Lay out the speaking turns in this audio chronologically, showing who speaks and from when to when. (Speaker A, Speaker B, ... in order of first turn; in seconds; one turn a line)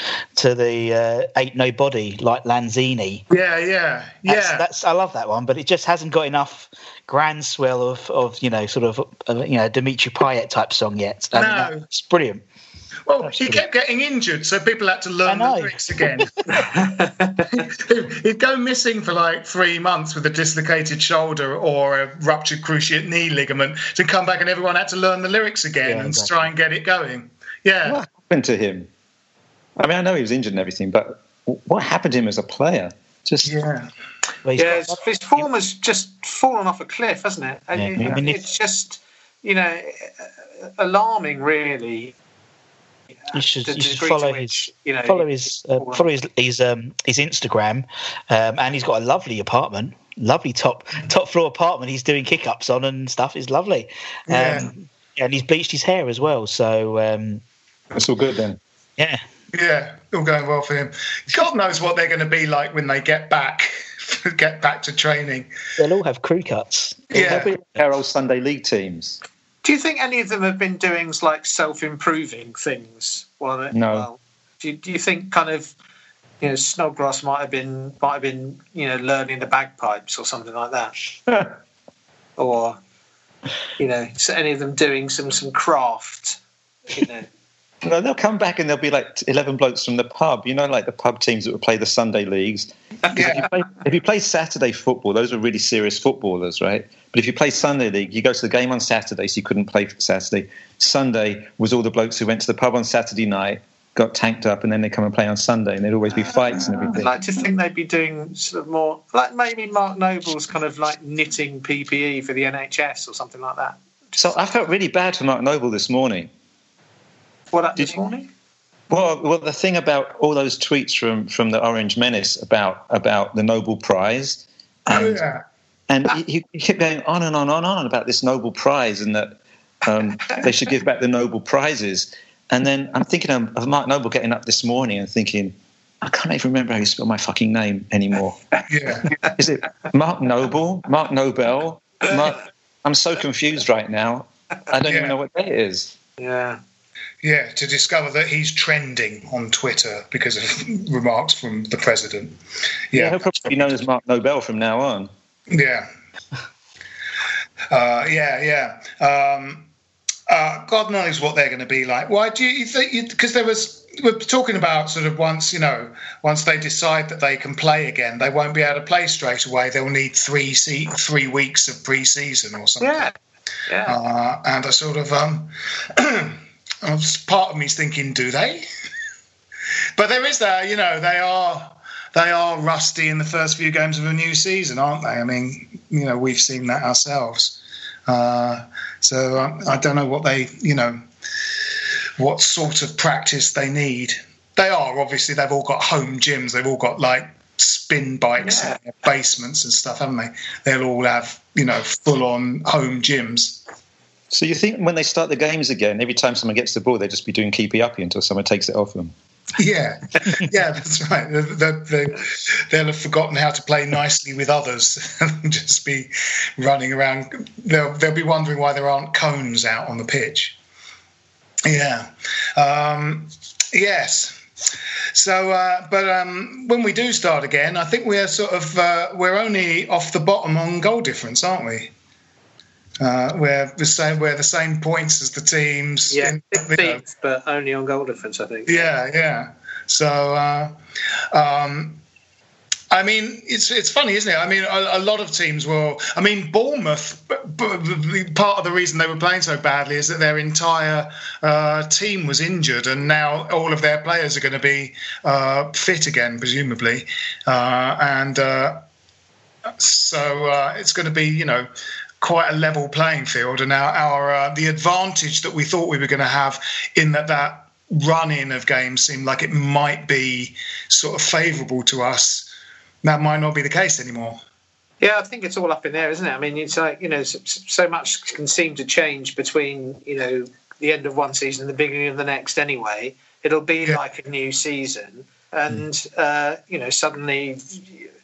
Speaker A: 0.3-3.2
Speaker B: 3.3-4.6
Speaker A: 4.2-12.4
Speaker B: 11.3-11.8
Speaker B: 13.1-16.3
Speaker A: 13.2-13.6
Speaker A: 15.2-16.3
Speaker C: 16.5-17.5
Speaker B: 17.5-28.0
Speaker A: 25.8-26.5
Speaker D: 27.8-28.9
Speaker D: 29.8-33.5
Speaker B: 33.4-33.9
Speaker A: 34.4-35.4
Speaker C: 34.6-42.1
Speaker A: 37.8-38.4
Speaker A: 43.3-57.4
Speaker C: 43.6-46.1
Speaker B: 54.3-54.7
Speaker D: 57.9-58.6
Speaker A: 59.0-59.2
Speaker B: 59.5-65.5
Speaker A: 65.8-67.5
Speaker B: 67.1-67.5
Speaker D: 67.2-69.2
Speaker C: 69.6-75.7
Speaker D: 73.7-74.1
Speaker C: 76.4-80.9
Speaker D: 81.3-81.5
Speaker C: 82.4-82.8
Speaker C: 83.8-86.4
Speaker C: 86.9-87.3
Speaker D: 87.8-107.1
Speaker B: 93.1-93.5
Speaker C: 106.1-113.8
Speaker D: 114.2-116.3
Speaker C: 117.5-118.3
Speaker D: 118.9-125.2
Speaker B: 124.9-125.4
Speaker D: 125.9-138.4
Speaker B: 138.7-139.1
Speaker D: 139.3-145.9
Speaker B: 144.8-145.2
Speaker C: 146.2-146.6
Speaker B: 147.2-152.4
Speaker B: 152.9-153.4
Speaker D: 152.9-155.1
Speaker B: 155.5-155.9
Speaker B: 157.7-159.7
Speaker B: 160.3-173.1
Speaker C: 172.8-173.1
Speaker C: 173.7-174.0
Speaker B: 173.8-178.6
Speaker B: 180.0-191.0
Speaker B: 192.2-203.6
Speaker C: 198.4-198.8
Speaker D: 204.3-209.1
Speaker B: 209.6-220.6
Speaker B: 221.7-224.4
Speaker B: 225.1-231.9
Speaker B: 233.0-237.0
Speaker C: 236.1-238.8
Speaker B: 238.7-240.7
Speaker B: 241.3-242.0
Speaker B: 242.9-258.8
Speaker B: 259.8-261.7
Speaker B: 262.2-272.5
Speaker B: 273.0-274.4
Speaker C: 275.0-288.1